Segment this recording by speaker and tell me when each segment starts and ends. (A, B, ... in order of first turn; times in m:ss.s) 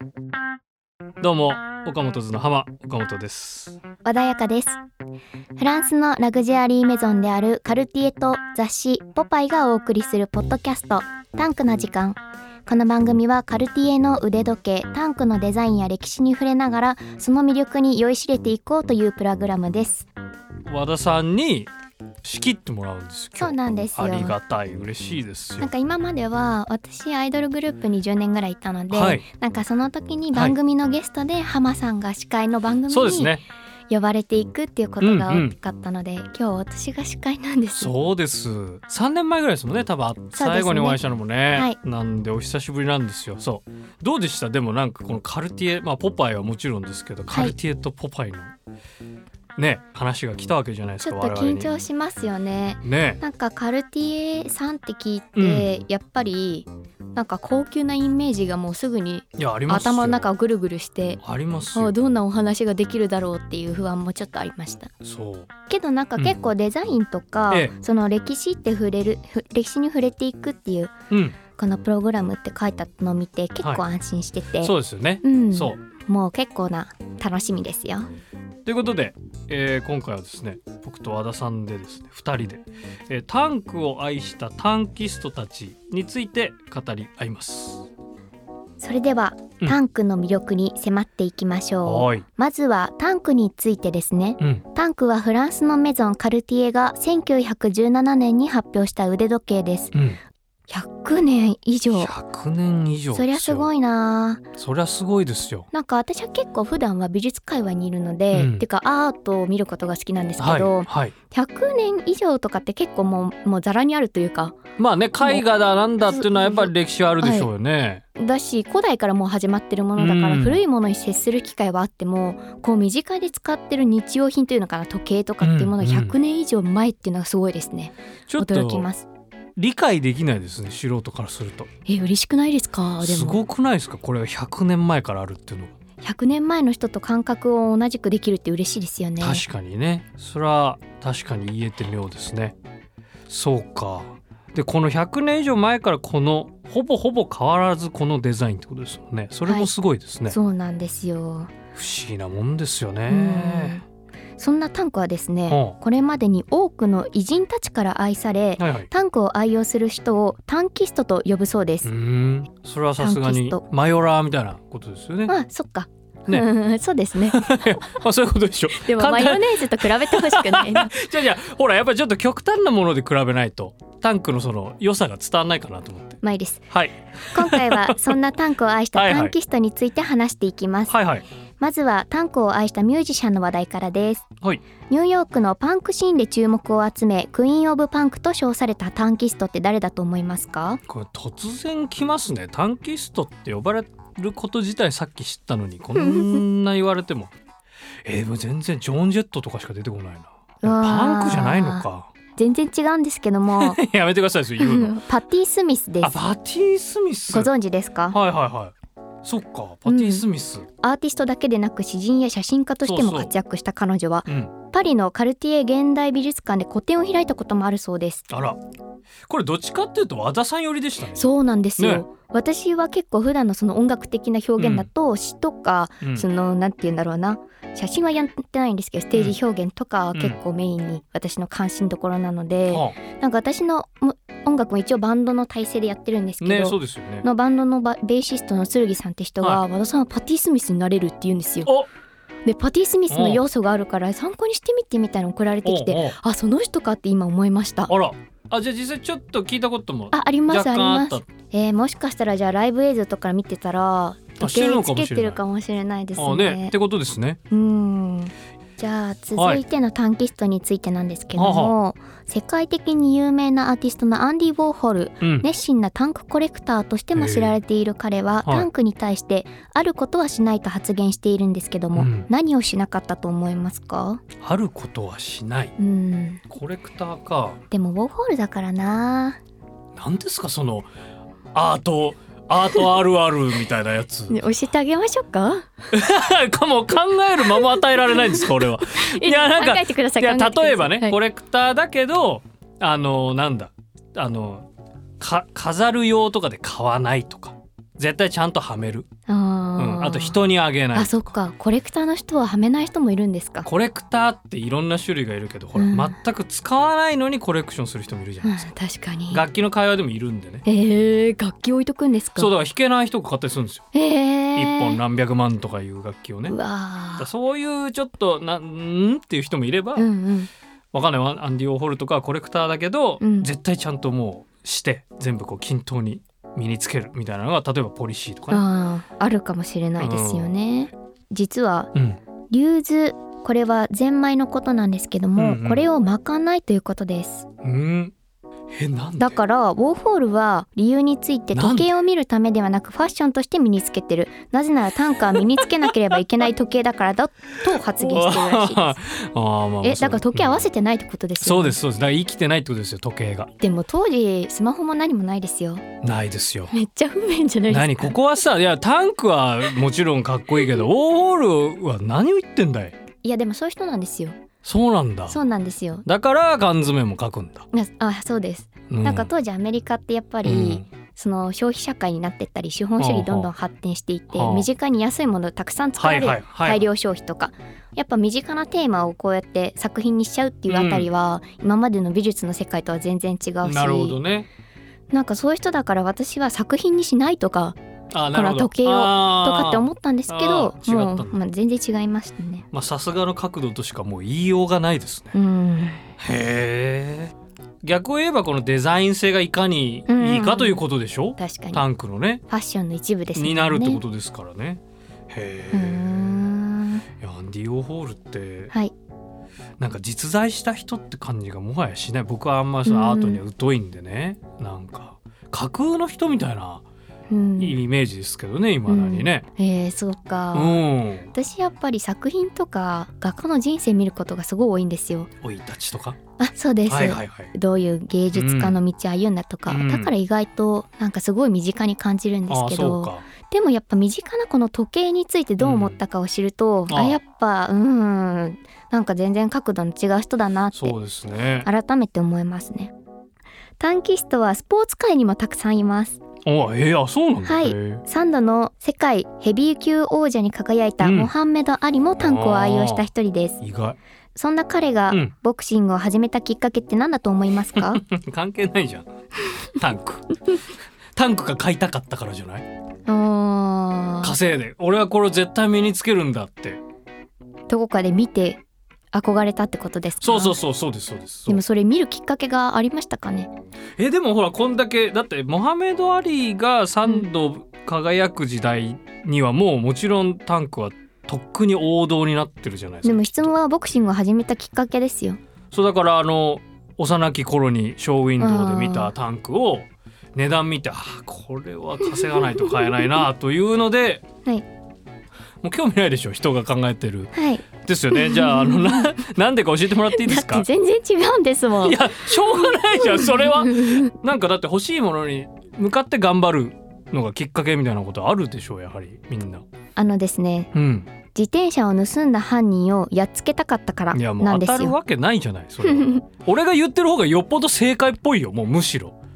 0:01.2-0:03.8 A
0:04.0-0:04.8 B
0:05.6-0:20.1 B
0:20.7-0:21.7 A
0:22.2-0:25.7 A
0:23.4-0:24.4 B
0:25.6-0:33.3 B
0:28.9-0:29.2 A
0:32.9-0:33.4 A
0:33.9-0:37.9 B
0:35.0-0:35.5 A
0:37.8-0:48.5 A
0:40.3-0:41.0 B
0:49.6-0:51.7 A
0:51.0-1:01.2 B
0:52.8-0:53.2 A
0:55.4-0:55.7 A
0:59.4-1:00.2 A
1:01.2-1:02.0 A
1:01.7-1:04.9 B
1:05.0-1:05.5 A
1:05.7-1:14.7 B
1:11.1-1:11.4 A
1:14.6-1:15.8 A
1:15.2-1:18.1 B
1:18.6-1:27.9 A
1:28.8-1:39.9 B
1:31.8-1:32.2 A
1:39.9-1:40.2 A
1:40.7-1:42.1 B
1:41.9-1:43.7 A
1:43.1-1:44.5 B
1:44.6-1:45.7 A
1:45.7-1:54.6 B
1:48.3-1:48.6 A
1:50.4-1:51.1 A
1:54.8-1:58.0 A
1:56.0-1:57.5 B
1:58.2-2:09.0 B
2:00.0-2:00.6 A
2:05.4-2:06.1 A
2:08.3-2:08.9 A
2:09.6-2:11.7 A
2:11.8-2:13.4 B
2:13.0-2:15.7 A
2:16.0-2:19.4 B
2:19.2-2:22.6 A
2:23.3-2:30.4 A
2:30.3-2:31.5 B
2:31.7-2:33.8 A
2:33.1-2:33.8 B
2:34.4-2:41.9 B
2:35.5-2:35.8 A
2:38.6-2:38.9 A
2:41.8-2:45.3 A
2:43.0-2:43.6 B
2:45.3-2:47.9 B
2:47.3-2:56.2 A
2:48.8-2:50.9 B
2:56.2-2:56.7 B
2:56.7-2:58.2 A
2:57.3-3:01.0 B
2:58.9-2:59.3 A
3:00.9-3:01.2 A
3:01.6-3:04.2 B
3:04.9-3:10.8 B
3:10.9-3:17.3 A
3:15.9-3:16.4 B
3:18.0-3:22.1 A
3:20.6-3:23.8 B
3:23.6-3:25.0 A
3:24.6-3:26.1 B
3:26.0-3:27.5 A
3:27.3-3:28.2 B
3:28.1-3:30.7 A
3:29.9-3:30.2 B
3:30.8-3:38.3 B
3:32.8-3:33.3 A
3:34.2-3:34.5 A
3:38.3-3:38.6 A
3:39.3-3:42.0 A
3:41.1-4:01.7 B
3:44.6-3:44.9 A
3:46.0-3:46.3 A
3:52.7-3:53.0 A
3:56.4-3:57.2 A
4:02.4-4:07.9 B
4:03.1-4:03.4 A
4:05.6-4:06.2 A
4:07.9-4:11.3 A
4:10.1-4:16.7 B
4:14.4-4:15.4 A
4:16.2-4:17.4 A
4:17.5-4:34.2 B
4:19.4-4:19.6 A
4:21.3-4:21.7 A
4:25.2-4:25.5 A
4:27.1-4:27.6 A
4:31.9-4:32.3 A
4:34.4-4:35.8 A
4:35.8-4:36.4 B
4:36.5-4:37.6 A
4:37.7-4:39.4 B
4:40.0-4:40.9 A
4:41.5-4:44.4 A
4:44.3-4:45.7 B
4:45.9-4:54.7 A
4:47.5-4:51.2 B
4:55.2-4:59.1 A
4:59.3-5:00.4 B
4:59.8-5:01.1 A
5:00.9-5:03.7 B
5:03.6-5:08.6 A
5:05.8-5:06.2 B
5:08.4-5:09.4 B
5:09.3-5:10.6 A
5:10.6-5:12.5 B
5:12.4-5:13.8 A
5:13.9-5:15.0 B
5:14.6-5:16.6 A
5:16.5-5:17.3 B
5:17.2-5:20.1 A
5:20.0-5:20.5 B
5:20.9-5:28.6 A
5:23.2-5:23.5 B
5:28.5-5:31.9 B
5:30.0-5:30.5 A
5:31.9-5:32.2 A
5:32.5-5:37.5 B
5:35.4-5:35.9 A
5:37.6-5:38.1 A
5:38.7-5:39.4 A
5:39.2-5:49.0 B
5:41.5-5:41.9 A
5:45.3-5:45.9 A
5:47.7-5:50.7 A
5:49.8-5:51.8 B
5:51.4-5:53.5 A
5:53.6-5:55.8 B
5:56.0-5:56.7 A
5:56.7-5:58.2 B
5:57.7-6:03.0 A
6:03.2-6:04.4 B
6:04.6-6:05.4 A
6:05.3-6:06.0 B
6:06.0-6:07.7 A
6:07.7-6:24.2 B
6:08.9-6:09.3 A
6:10.4-6:10.8 A
6:13.0-6:13.5 A
6:14.3-6:14.7 A
6:16.0-6:16.8 A
6:20.7-6:21.1 A
6:23.6-6:24.5 A
6:25.1-6:27.8 B
6:28.1-6:31.4 A
6:28.3-6:32.7 B
6:32.7-6:35.4 A
6:35.3-6:36.1 B
6:36.2-6:42.4 A
6:40.1-6:40.8 B
6:41.4-6:41.8 B
6:42.5-6:44.0 B
6:43.3-6:46.4 A
6:45.7-6:47.0 B
6:47.2-6:48.7 A
6:49.8-6:56.8 A
6:52.8-6:53.4 B
6:57.3-6:57.8 B
6:57.6-6:59.4 A
6:58.9-7:05.3 B
7:00.5-7:01.3 A
7:05.4-7:06.2 A
7:06.4-7:21.0 B
7:06.9-7:07.5 A
7:08.3-7:08.8 A
7:09.7-7:10.1 A
7:12.5-7:13.3 A
7:15.6-7:16.0 A
7:16.9-7:17.2 A
7:20.7-7:21.7 A
7:21.6-7:22.9 B
7:23.8-7:26.2 B
7:26.4-7:28.0 A
7:27.4-7:33.6 B
7:31.0-7:31.3 A
7:32.2-7:33.1 A
7:33.6-7:34.0 A
7:34.3-7:38.0 B
7:37.7-7:39.1 A
7:39.7-7:40.3 A
7:41.1-7:42.7 A
7:43.1-7:44.4 B
7:44.2-7:46.8 A
7:47.7-7:48.6 B
7:49.1-7:50.6 B
7:50.2-7:51.6 A
7:51.5-7:53.5 B
7:54.0-8:03.5 A
7:57.0-7:57.3 B
8:03.0-8:05.4 B
8:05.7-8:14.2 A
8:08.4-8:09.1 B
8:12.3-8:13.2 B
8:15.6-8:20.7 A
8:17.3-8:19.1 B
8:20.1-8:24.1 B
8:21.8-8:29.6 A
8:30.0-8:30.7 B
8:30.7-8:31.1 A
8:31.3-8:35.0 B
8:34.1-8:39.2 A
8:35.8-8:36.2 B